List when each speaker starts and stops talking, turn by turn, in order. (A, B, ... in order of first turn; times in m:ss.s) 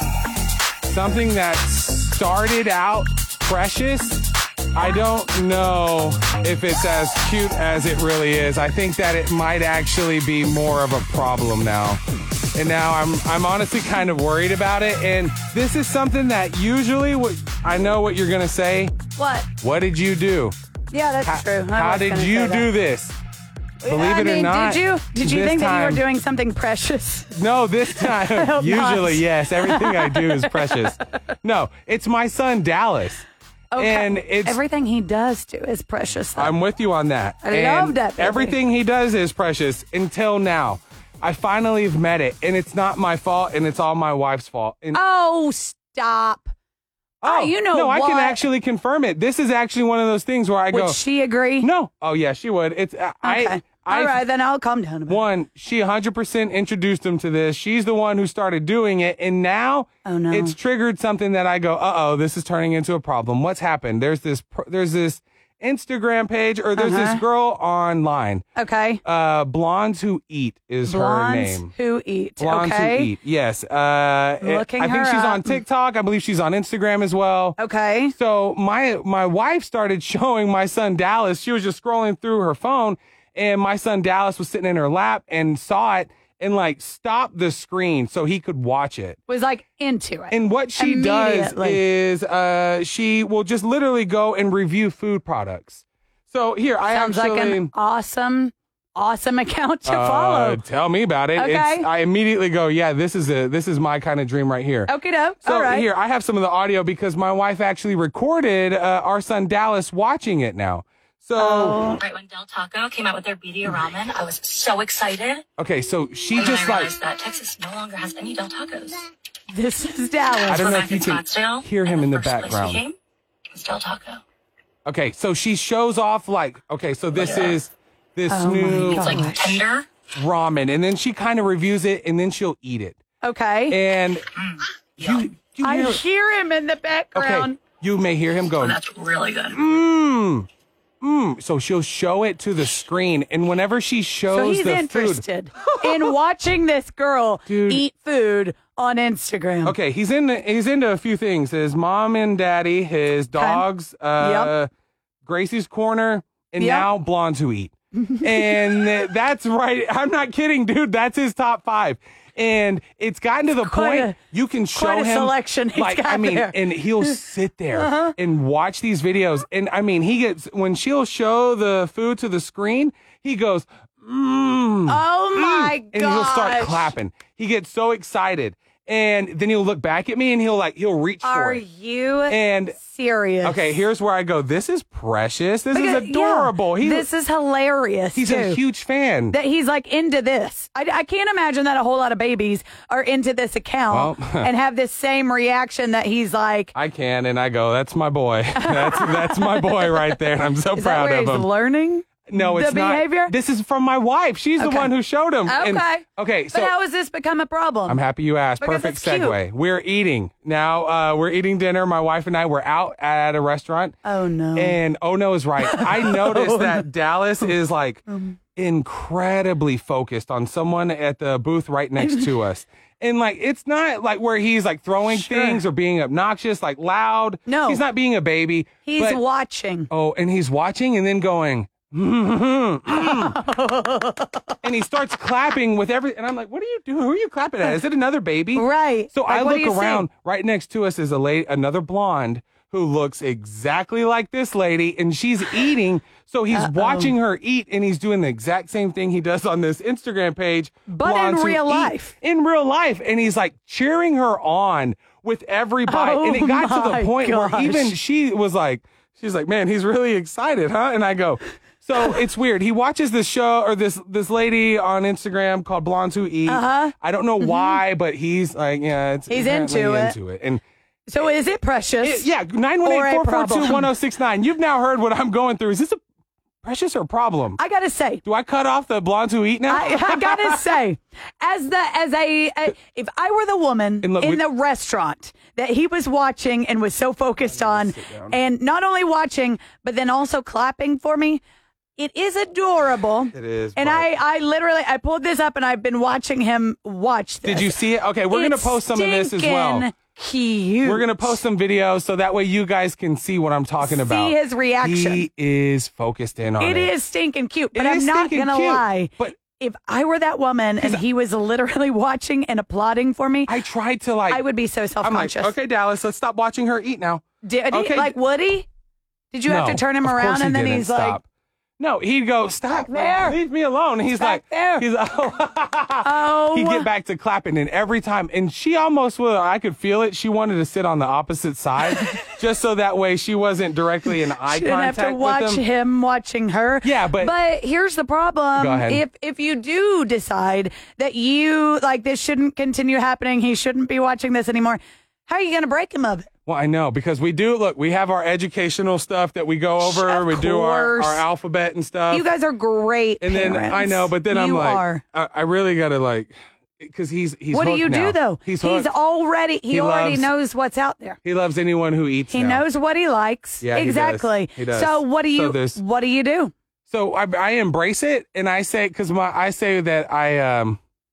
0:00.9-0:12.0 A
0:12.6-0:19.0 A
0:19.2-0:19.5 B
0:19.6-0:20.6 A
0:20.9-0:22.7 B
0:21.2-0:23.2 A
0:23.8-0:27.3 B
0:23.8-0:26.0 A
0:27.3-0:34.6 A
0:27.9-0:30.9 B
0:33.7-0:36.6 B
0:36.4-0:45.0 A
0:37.4-0:38.6 B
0:44.9-0:46.5 B
0:47.2-0:51.0 A
0:47.2-0:48.4 B
0:50.7-0:51.7 B
0:51.6-0:54.2 A
0:53.2-0:55.2 B
0:55.1-1:08.4 A
1:00.0-1:00.6 B
1:06.8-1:07.2 B
1:08.6-1:09.0 B
1:09.0-1:11.7 A
1:10.9-1:13.1 B
1:12.4-1:17.6 A
1:14.4-1:15.6 B
1:17.6-1:18.1 B
1:18.1-1:29.2 A
1:29.3-1:31.8 B
1:30.3-1:37.7 A
1:36.9-1:40.6 B
1:39.9-1:52.0 A
1:41.4-1:41.9 B
1:44.9-1:45.9 B
1:51.4-1:52.0 B
1:52.0-1:55.4 C
1:55.6-1:56.9 A
1:56.4-1:59.0 C
1:59.5-2:00.7 B
2:00.4-2:03.0 C
2:00.5-2:02.8 A
2:03.5-2:04.2 C
2:04.9-2:09.2 A
2:07.1-2:07.6 C
2:08.3-2:09.6 B
2:08.9-2:09.9 C
2:10.2-2:13.0 A
2:13.2-2:13.8 B
2:13.7-2:14.3 A
2:15.0-2:16.0 A
2:15.6-2:17.6 B
2:17.2-2:18.8 A
2:18.6-2:19.6 C
2:19.5-2:20.5 A
2:21.0-2:25.2 A
2:24.3-2:29.8 B
2:25.8-2:26.1 A
2:27.5-2:27.8 A
2:29.6-2:34.7 A
2:33.4-2:33.6 B
2:34.2-2:34.5 B
2:35.2-3:01.6 A
2:36.6-2:36.9 B
2:38.0-2:38.9 B
2:43.6-2:44.2 B
2:44.7-2:47.2 B
2:47.7-2:48.1 B
2:54.9-2:56.9 B
3:01.2-3:03.8 B
3:02.3-3:02.8 A
3:03.4-3:07.1 A
3:05.7-3:08.6 B
3:08.2-3:09.4 A
3:09.3-3:16.7 B
3:13.9-3:14.5 A
3:16.8-3:21.5 A
3:18.6-3:20.2 B
3:20.7-3:23.3 B
3:22.3-3:26.8 A
3:24.6-3:24.9 B
3:25.5-3:28.0 B
3:27.9-3:34.0 A
3:28.6-3:29.4 B
3:34.0-3:34.8 B
3:34.6-3:49.2 A
3:35.6-3:36.8 B
3:38.1-3:38.4 B
3:42.0-3:42.3 B
3:45.1-3:45.6 B
3:47.5-3:47.8 B
3:48.8-3:49.9 B
3:49.9-3:53.4 A
3:52.9-3:54.6 B
3:54.6-4:30.6 A
3:58.6-4:00.1 B
4:06.5-4:07.2 B
4:10.9-4:12.1 B
4:15.9-4:18.0 B
4:26.5-4:27.8 B
4:29.3-4:30.2 B
4:31.1-4:32.3 B
4:32.0-4:36.0 A
4:32.8-4:33.9 B
4:36.6-4:37.6 A
4:37.6-4:38.2 B
4:38.2-4:40.8 A
4:39.7-4:51.4 B
4:44.0-4:44.4 A
4:47.5-4:48.4 A
4:52.0-5:01.4 B
4:53.3-4:54.1 A
4:57.4-4:59.9 A
5:00.8-5:06.9 A
5:03.8-5:05.2 B
5:06.6-5:13.6 B
5:07.7-5:09.4 A
5:13.5-5:14.5 A
5:14.3-5:15.5 B
5:15.0-5:18.2 A
5:17.4-5:18.7 B
5:19.3-5:21.2 B
5:19.5-5:21.2 A
5:21.8-5:35.6 A
5:22.7-5:23.4 B
5:24.1-5:24.8 B
5:26.0-5:26.9 B
5:34.1-5:46.3 B
5:36.8-5:37.3 A
5:38.6-5:39.0 A
5:46.5-5:52.3 A
5:49.8-5:51.2 B
5:52.1-5:55.0 B
5:53.2-5:58.9 A
5:57.5-6:01.2 B
5:59.7-6:00.3 A
6:01.2-6:02.6 A
6:02.3-6:06.5 B
6:03.6-6:05.8 A
6:06.9-6:10.8 A